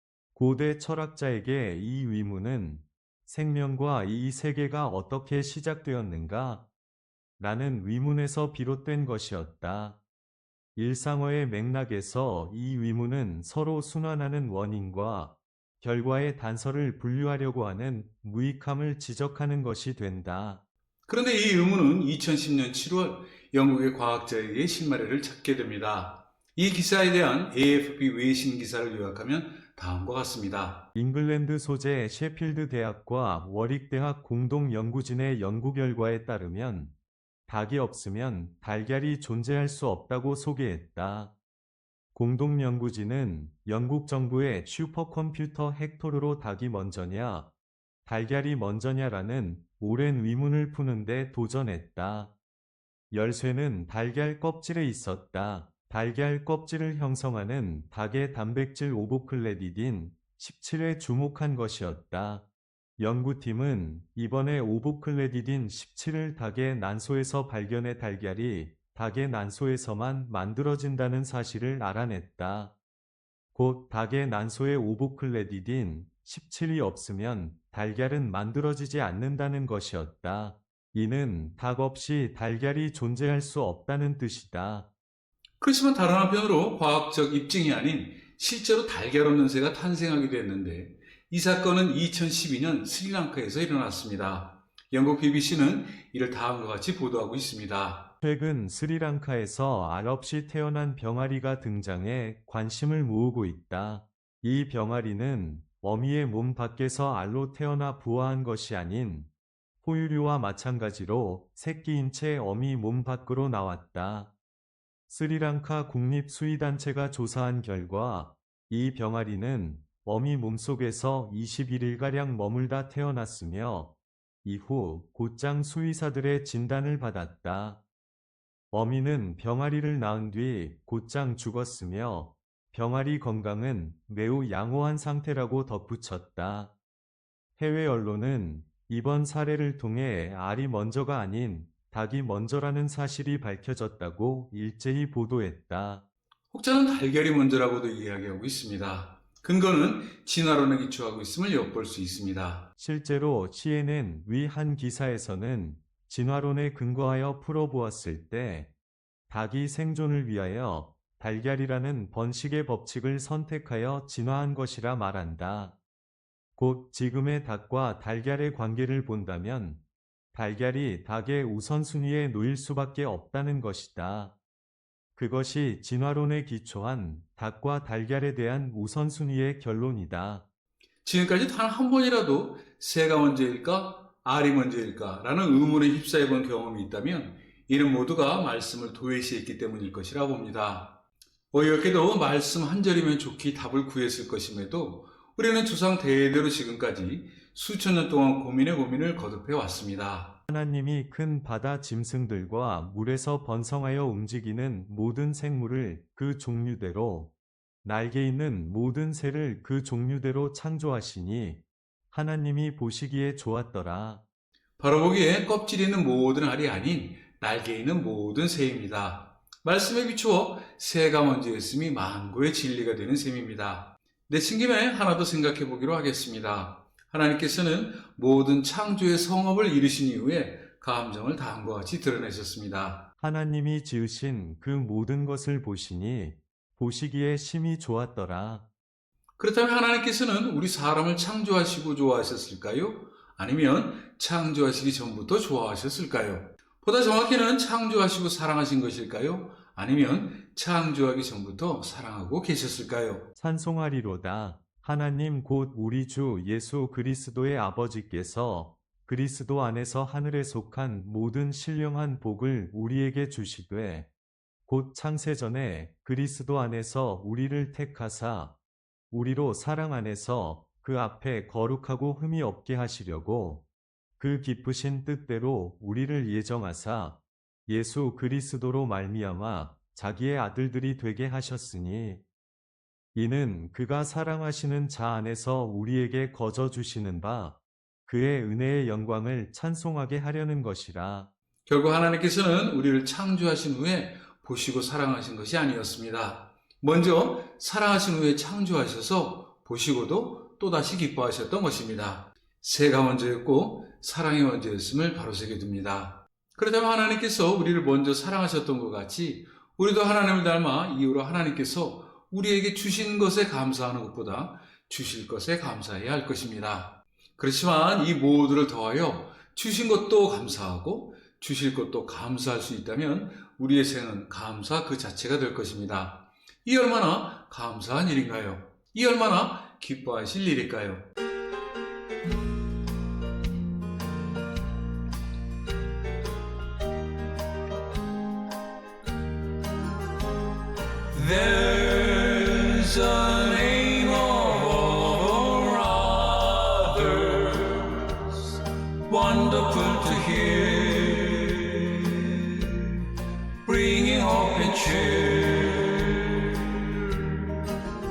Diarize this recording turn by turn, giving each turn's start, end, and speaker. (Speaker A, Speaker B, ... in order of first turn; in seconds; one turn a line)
Speaker A: 0.4-6.6
Speaker A: 7.4-10.0
Speaker A: 10.8-20.6
Speaker B: 21.1-30.9
Speaker A: 30.9-36.9
Speaker A: 37.5-41.3
Speaker A: 42.1-47.5
Speaker A: 48.0-52.3
Speaker A: 53.1-62.4
Speaker A: 63.0-72.7
Speaker A: 73.5-84.9
Speaker B: 85.6-98.1
Speaker A: 98.2-109.3
Speaker A: 109.8-114.3
Speaker A: 115.1-123.9
Speaker A: 124.4-127.8
Speaker A: 128.7-136.7
Speaker A: 137.6-146.0
Speaker B: 146.5-152.7
Speaker A: 152.8-158.7
Speaker A: 159.3-165.7
Speaker A: 166.6-169.8
Speaker A: 170.3-174.3
Speaker A: 175.2-180.4
Speaker B: 181.0-200.4
Speaker A: 200.5-207.3
Speaker A: 207.8-211.6
Speaker A: 212.1-214.2
Speaker B: 214.8-233.1
Speaker A: 233.2-238.6
Speaker B: 239.4-253.3
Speaker A: 253.4-264.1
Speaker A: 264.7-268.5
Speaker A: 269.1-273.6
Speaker A: 274.2-282.2
Speaker A: 283.1-291.3
Speaker B: 291.7-331.1
Speaker B: 341.1-353.0
Speaker B: 353.6-357.4